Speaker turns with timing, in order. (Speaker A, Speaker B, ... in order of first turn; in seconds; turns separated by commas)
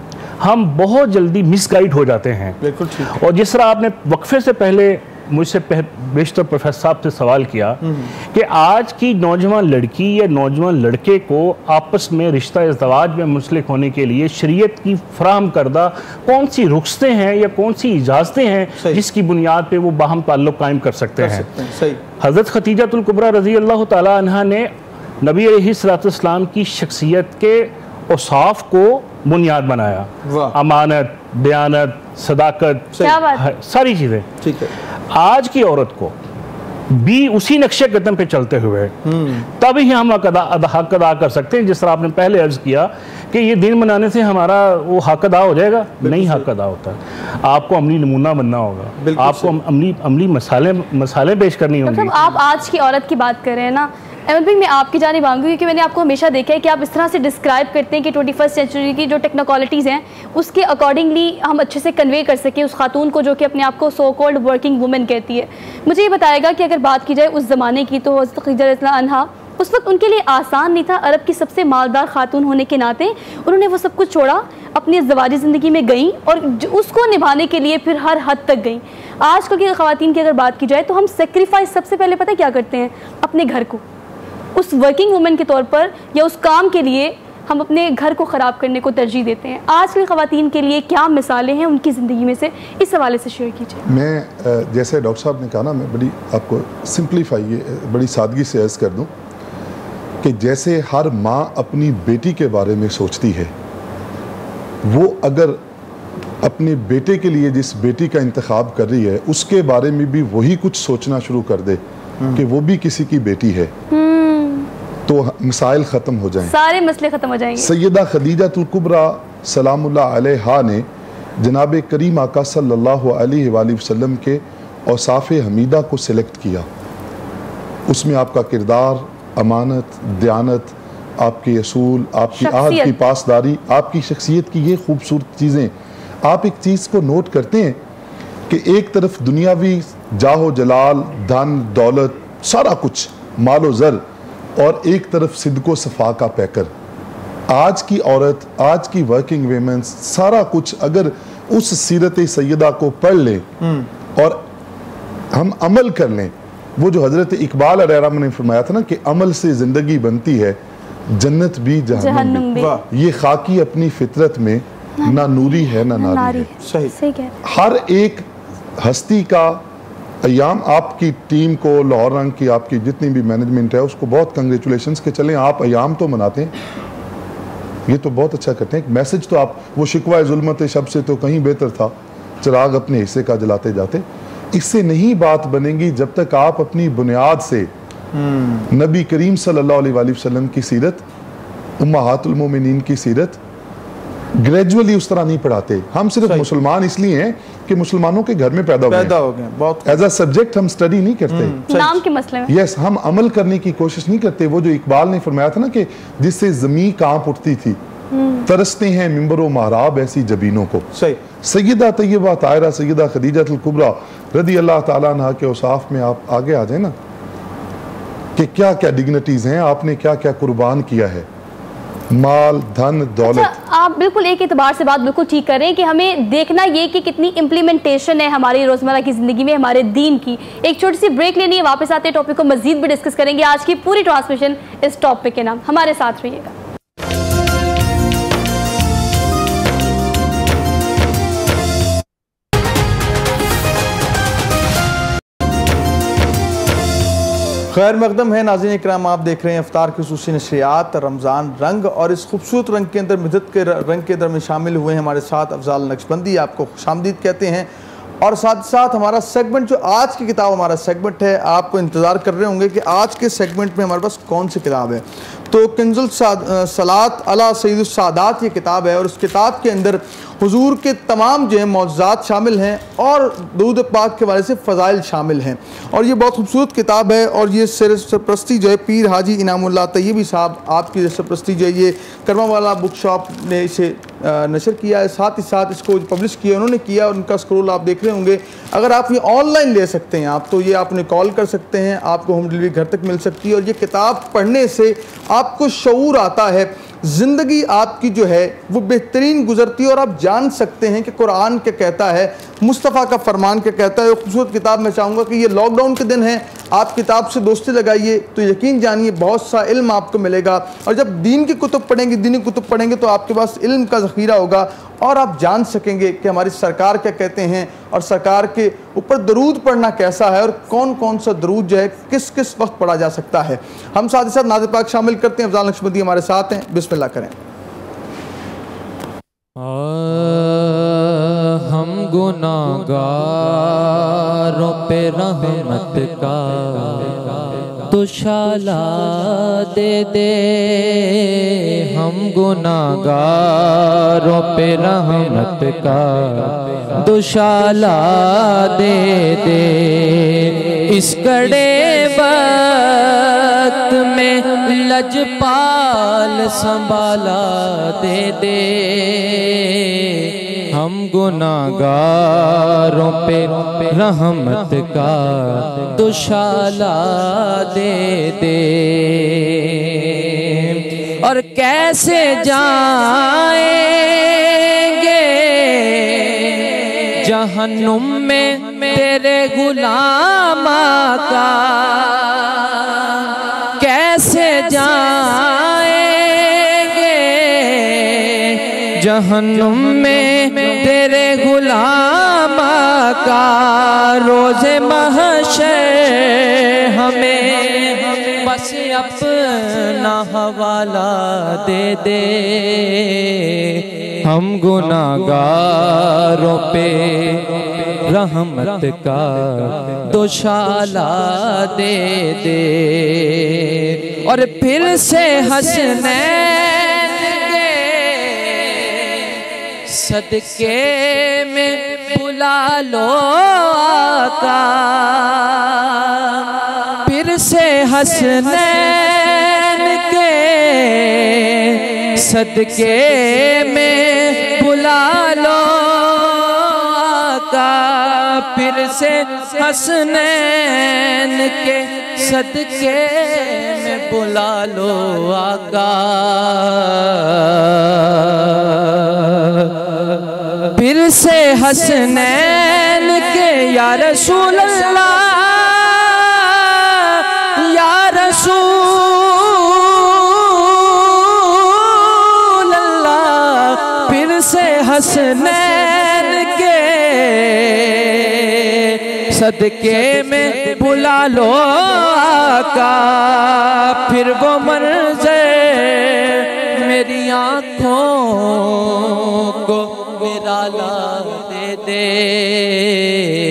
Speaker A: 0.4-2.6, Speaker B: 2.6-3.1, Speaker A: 3.1-7.8, Speaker B: 7.8-8.1, Speaker A: 8.3-21.5, Speaker B: 21.2-22.0, Speaker A: 22.2-24.7, Speaker A: 25.2-34.3, Speaker B: 30.3-30.6, Speaker C: 33.0-33.5, Speaker B: 34.4-34.7, Speaker A: 35.1-36.1, Speaker A: 36.9-39.0, Speaker B: 39.0-39.5, Speaker A: 39.5-52.2, Speaker B: 46.0-46.5, Speaker B: 49.0-49.5, Speaker C: 51.9-83.8, Speaker C: 84.6-93.9, Speaker D: 93.9-99.1, Speaker D: 100.2-103.5, Speaker D: 104.8-105.6, Speaker D: 106.4-111.8, Speaker D: 112.3-113.7, Speaker C: 113.9-114.7, Speaker D: 115.1-116.5, Speaker C: 116.5-117.7, Speaker D: 117.6-120.9, Speaker D: 121.4-126.7, Speaker D: 127.9-135.7, Speaker C: 132.4-133.0, Speaker D: 136.3-137.8, Speaker D: 138.5-144.0, Speaker D: 144.6-146.7, Speaker D: 147.5-153.5, Speaker B: 153.6-153.9, Speaker D: 154.2-154.4, Speaker D: 155.3-160.6, Speaker D: 161.1-166.5, Speaker C: 161.9-162.7, Speaker B: 162.5-162.8, Speaker C: 165.0-167.3, Speaker B: 166.6-166.9, Speaker D: 167.4-168.3, Speaker D: 168.8-169.6, Speaker D: 170.2-176.5, Speaker D: 177.9-187.7, Speaker B: 188.1-188.7, Speaker D: 188.7-191.0, Speaker D: 191.8-193.4, Speaker D: 194.4-199.2, Speaker B: 198.9-200.0, Speaker D: 199.9-201.6, Speaker B: 201.3-201.9, Speaker C: 201.7-202.5, Speaker D: 202.5-207.8, Speaker C: 208.1-208.5, Speaker D: 208.5-210.9, Speaker B: 210.9-211.2, Speaker D: 211.4-216.9, Speaker D: 218.4-221.3, Speaker D: 222.1-223.5, Speaker C: 223.2-236.5, Speaker B: 247.7-257.7, Speaker B: 258.2-327.3, Speaker E: 329.6-341.2, Speaker E: 341.9-359.5, Speaker E: 360.7-369.7, Speaker E: 371.2-376.6, Speaker E: 377.2-382.3, Speaker E: 383.8-388.2, Speaker E: 389.0-403.2, Speaker E: 404.2-413.6, Speaker E: 414.2-418.5, Speaker E: 419.9-425.5, Speaker E: 427.0-448.1, Speaker E: 450.7-467.9, Speaker E: 469.3-483.2